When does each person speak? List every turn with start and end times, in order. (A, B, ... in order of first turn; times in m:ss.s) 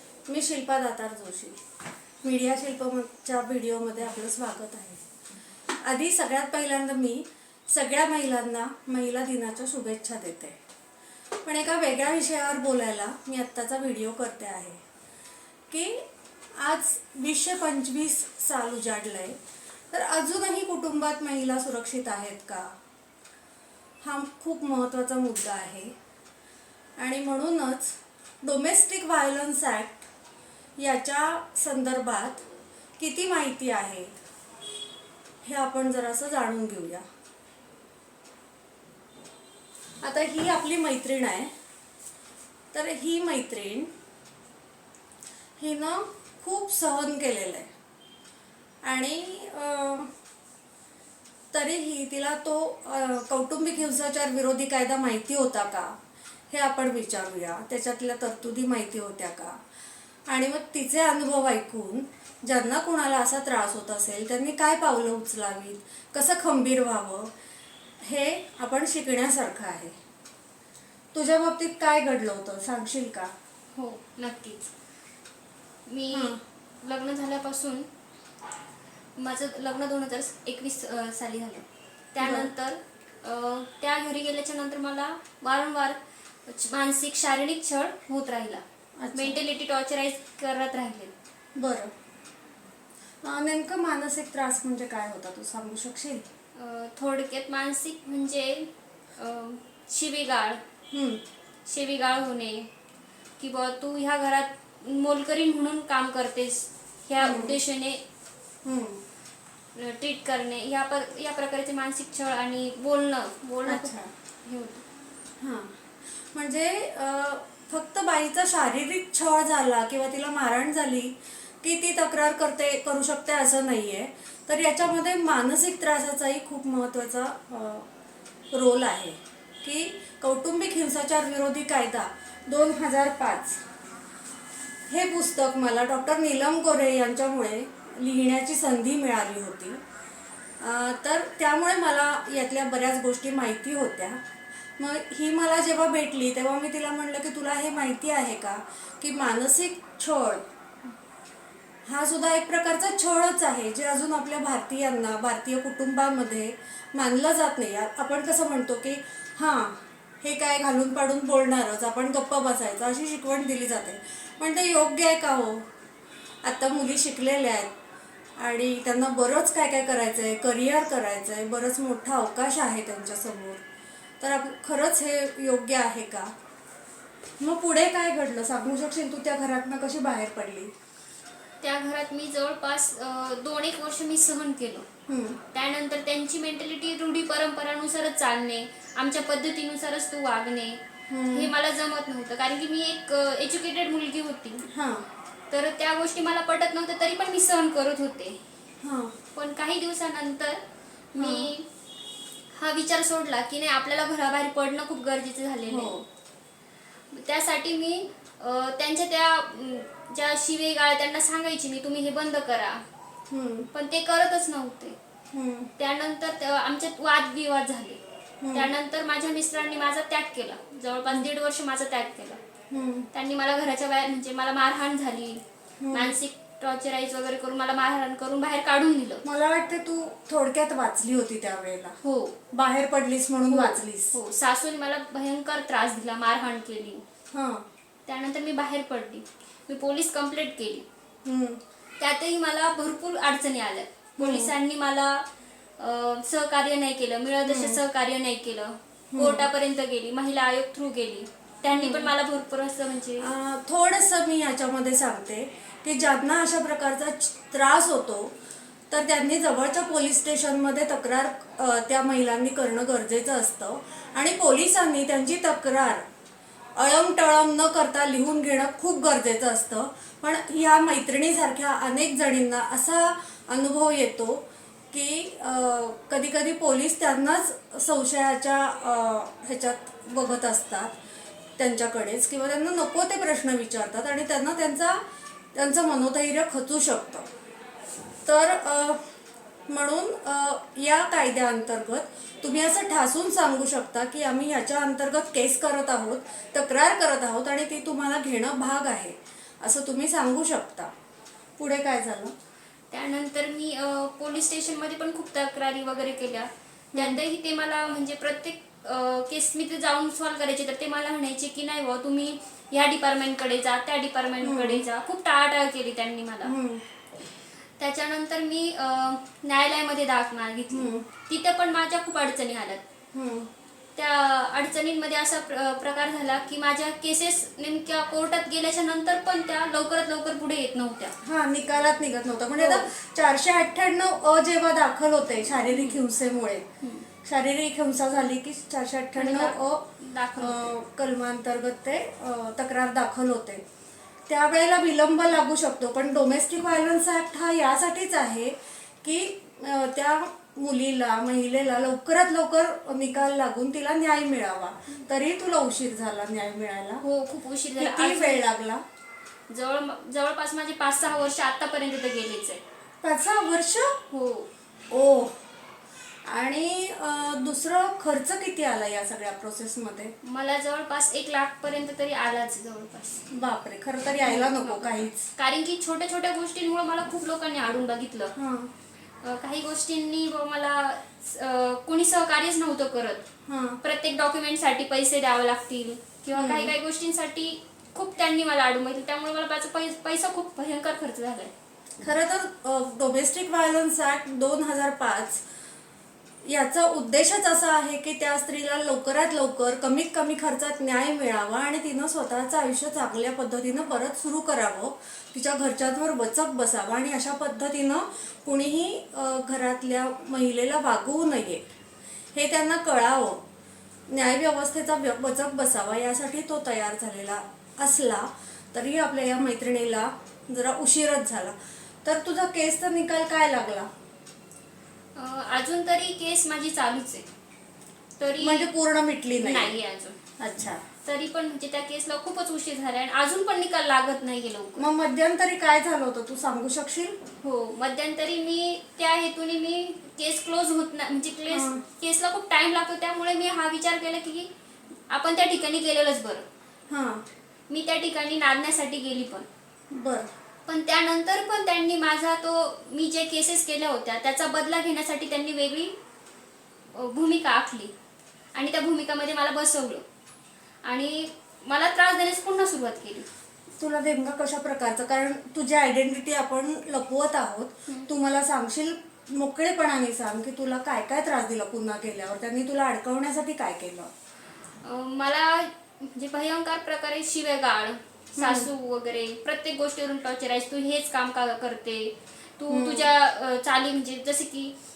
0:00.3-0:01.6 A
0:02.2-0:05.0 A
0:05.8-0:10.6 A
0:11.4-0:14.8 A
0:15.7-0:16.0 A
0:16.6-0:19.4 A
0:19.9-0:22.7 A
0:24.0-0:25.9 A
0:27.0-0:30.1 A
0:30.8-0:32.4 A
0:33.0-0:34.1 A
0:35.4-0:37.0 A
0:40.0-0:41.5 A
0:42.7-0:43.9 A
0:45.6-0:47.7 A
0:48.8-0:50.1 A
0:51.5-0:56.0 A
0:56.5-0:59.6 A
1:00.3-1:07.3 A
1:08.0-1:09.9 A
1:11.1-1:13.3 A
1:13.7-1:14.7 B
1:15.9-1:17.9 B
1:16.1-1:16.4 A
1:19.2-1:28.6 B
1:22.2-1:22.5 A
1:29.0-1:29.4 A
1:29.1-1:31.1 B
1:31.6-1:31.9 A
1:33.2-1:36.2 A
1:36.6-1:40.6 B
1:40.9-1:41.2 A
1:41.6-1:42.7 B
1:43.4-1:48.0 B
1:47.2-1:47.6 A
1:48.6-1:49.0 A
1:49.7-1:54.8 B
1:53.6-1:54.1 A
1:55.4-2:07.8 A
2:08.5-2:13.6 A
2:14.9-2:19.8 A
2:20.6-2:24.2 A
2:24.8-2:30.4 A
2:31.8-2:45.6 A
2:46.4-2:47.7 A
2:48.4-2:53.6 A
2:54.2-2:56.3 A
2:57.4-3:00.7 A
3:01.6-3:04.8 B
3:05.1-3:05.4 A
3:05.5-3:14.6 B
3:11.1-3:11.5 A
3:14.7-3:15.1 A
3:15.5-3:18.4 B
3:18.8-3:19.2 A
3:19.3-3:20.6 B
3:21.1-3:21.6 B
3:21.2-3:21.5 A
3:22.5-3:26.0 B
3:25.7-3:26.0 A
3:27.1-3:32.8 B
3:33.3-3:33.7 A
3:33.7-3:35.0 B
3:35.3-3:35.7 A
3:35.8-3:38.0 B
3:38.4-3:38.7 A
3:38.5-3:42.4 B
3:42.7-3:43.1 A
3:43.1-3:49.2 B
3:45.8-3:46.2 A
3:49.2-3:52.0 A
3:52.0-3:52.4 B
3:52.5-3:54.2 A
3:53.5-3:57.0 B
3:57.3-3:57.6 A
3:58.1-4:00.8 B
4:01.2-4:01.6 A
4:02.0-4:05.2 B
4:04.2-4:04.5 A
4:05.8-4:13.3 B
4:07.4-4:07.8 A
4:09.1-4:09.5 A
4:11.7-4:12.1 A
4:13.2-4:18.3 A
4:18.9-4:26.0 A
4:26.8-4:40.9 A
4:41.6-4:45.0 A
4:45.5-4:47.2 A
4:48.2-4:49.0 A
4:49.7-5:00.9 A
5:01.6-5:02.3 A
5:02.9-5:16.5 B
5:06.9-5:07.2 A
5:14.4-5:14.8 A
5:16.4-5:16.8 A
5:17.8-5:22.8 B
5:20.7-5:21.0 A
5:23.1-5:23.5 A
5:24.0-5:31.1 B
5:31.2-5:36.6 A
5:32.6-5:32.9 B
5:35.7-5:36.0 B
5:37.2-5:43.6 A
5:39.2-5:40.7 B
5:44.3-5:57.0 A
5:57.0-5:58.4 B
5:57.8-5:58.8 A
5:59.5-6:02.6 B
6:03.0-6:04.0 A
6:04.1-6:04.5 B
6:04.9-6:05.5 A
6:06.2-6:10.1 A
6:10.2-6:13.2 B
6:13.3-6:15.3 A
6:14.2-6:18.3 B
6:18.3-6:18.7 A
6:19.2-6:23.2 B
6:23.4-6:23.8 A
6:23.8-6:31.5 B
6:26.3-6:26.7 A
6:32.0-6:35.4 A
6:36.4-6:51.6 A
6:52.3-6:53.4 A
6:54.1-7:03.9 A
7:05.2-7:07.2 B
7:08.2-7:08.7 B
7:08.4-7:09.8 A
7:09.3-7:10.2 B
7:10.4-7:10.8 A
7:11.0-7:14.8 B
7:14.8-7:17.1 A
7:17.4-7:24.5 B
7:21.5-7:21.8 A
7:25.1-7:26.4 B
7:26.9-7:27.2 A
7:27.7-7:29.4 B
7:29.9-7:30.3 A
7:30.7-7:35.9 B
7:36.9-7:37.9 B
7:38.5-7:40.0 B
7:40.8-7:43.2 B
7:43.8-7:54.1 A
7:54.8-8:04.7 B
7:58.4-7:58.7 A
8:02.7-8:03.1 A